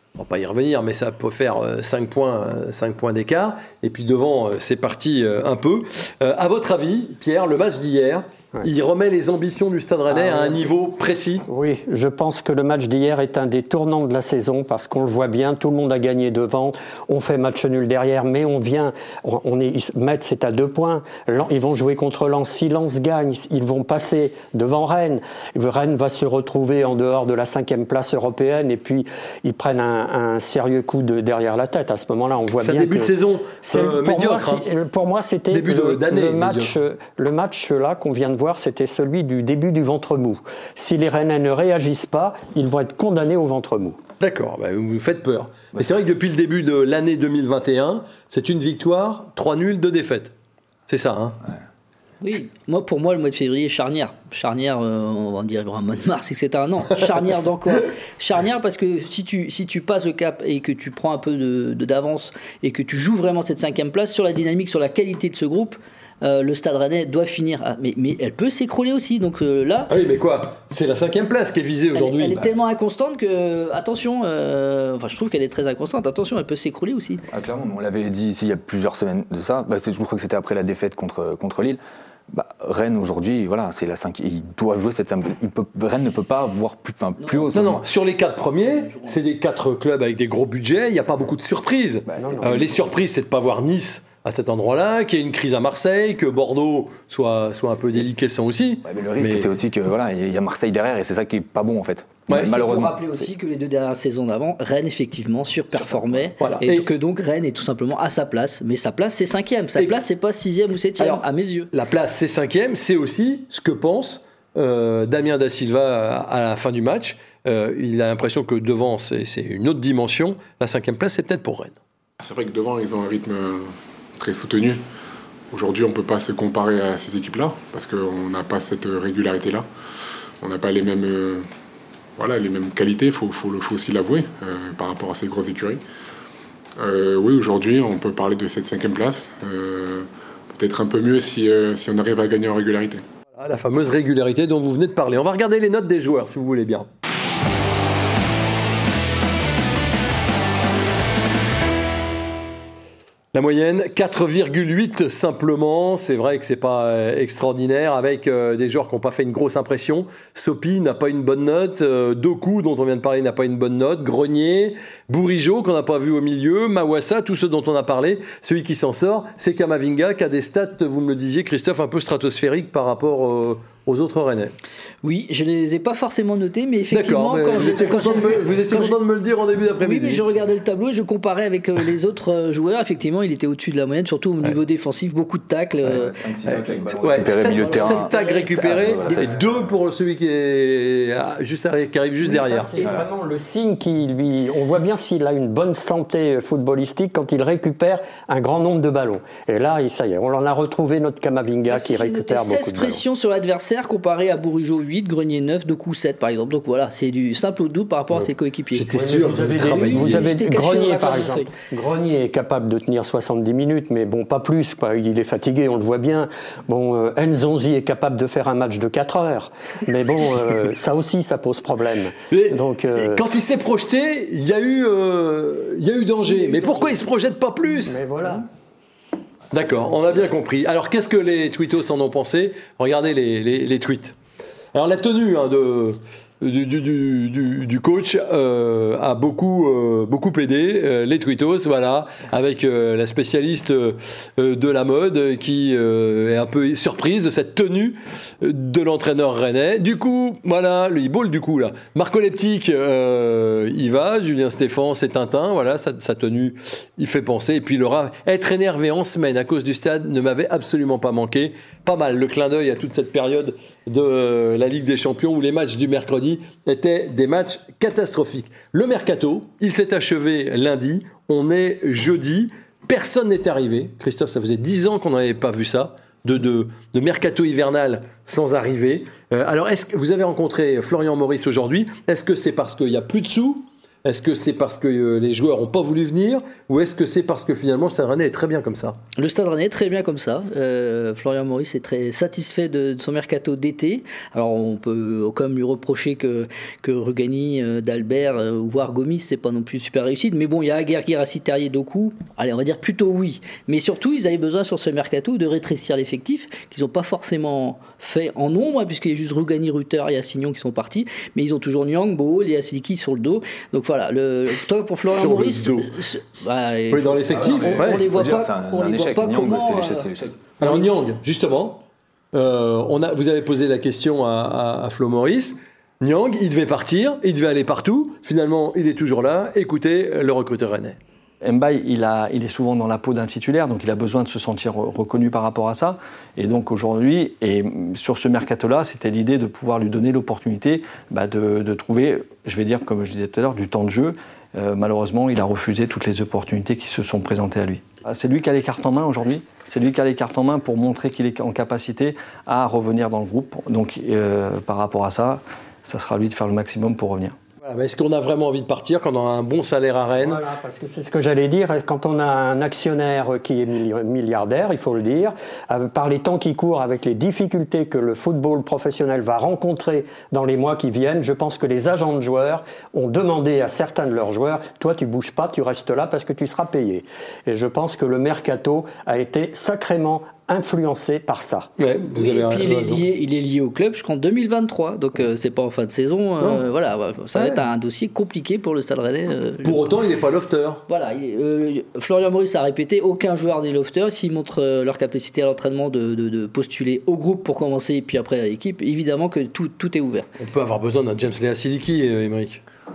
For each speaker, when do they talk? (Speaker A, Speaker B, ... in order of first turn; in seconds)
Speaker A: 0.2-11.4, 32.6-34.7, 35.5-36.8, 44.2-50.3, 50.9-51.4, 69.9-72.4, 87.5-99.5, 102.3-102.6, 106.4-106.9, 111.0-121.8, 143.4-146.9, 153.3-174.5, 176.9-180.2, 186.4-192.7, 208.7-210.3, 222.3-228.0, 229.5-234.2, 234.7-289.0, 315.0-315.9, 316.9-318.1, 320.6-321.8, 322.3-331.0, 357.6-360.4, 381.8-383.0, 389.6-390.8, 400.4-402.6
Speaker B: 10.1-10.7, 11.5-33.1, 33.6-44.0, 92.1-92.8, 192.2-203.0, 208.9-223.2, 227.8-228.5, 360.2-381.7
Speaker C: 52.2-69.9, 71.9-77.2, 87.2-87.5, 88.6-89.2, 102.3-111.7, 175.0-178.9, 179.8-186.1, 187.5-189.3, 201.7-208.9, 209.5-211.5, 289.1-320.1, 382.1-389.8, 390.9-400.3
Speaker D: 77.3-81.8, 82.3-87.8, 92.1-92.7, 98.8-103.3, 185.8-189.3, 317.3-320.4
Speaker E: 122.2-124.8, 125.5-129.7, 130.4-131.4, 132.2-135.8, 136.8-143.0
Speaker F: 331.4-357.4